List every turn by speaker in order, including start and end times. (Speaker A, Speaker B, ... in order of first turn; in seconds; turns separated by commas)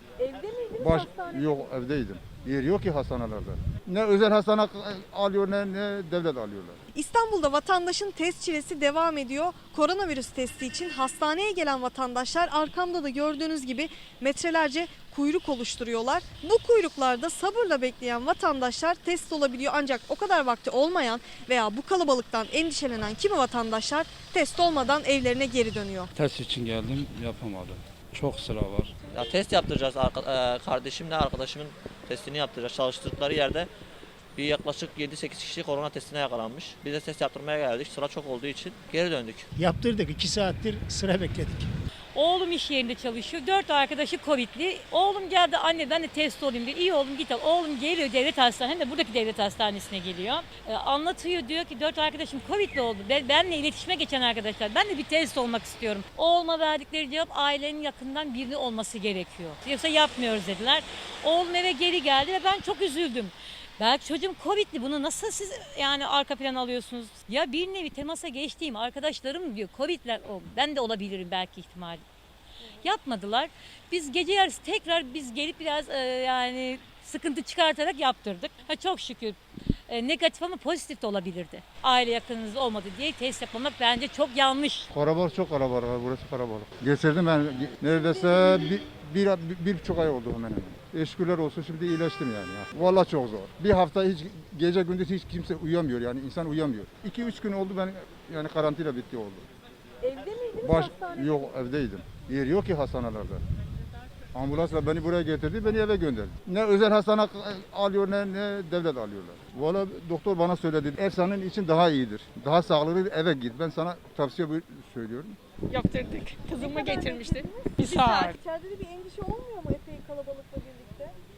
Speaker A: 0.2-1.6, Speaker B: 0.8-6.8, Speaker A: 6.9-26.1, Speaker C: 26.2-28.9, Speaker D: 29.1-33.7, Speaker D: 34.4-39.5, Speaker E: 39.6-41.7, Speaker F: 42.1-72.0, Speaker F: 72.8-84.9, Speaker B: 84.9-99.4, Speaker A: 87.9-88.2, Speaker A: 100.0-101.4, Speaker B: 100.6-103.4, Speaker B: 104.3-115.4, Speaker G: 115.7-118.4, Speaker A: 116.5-121.2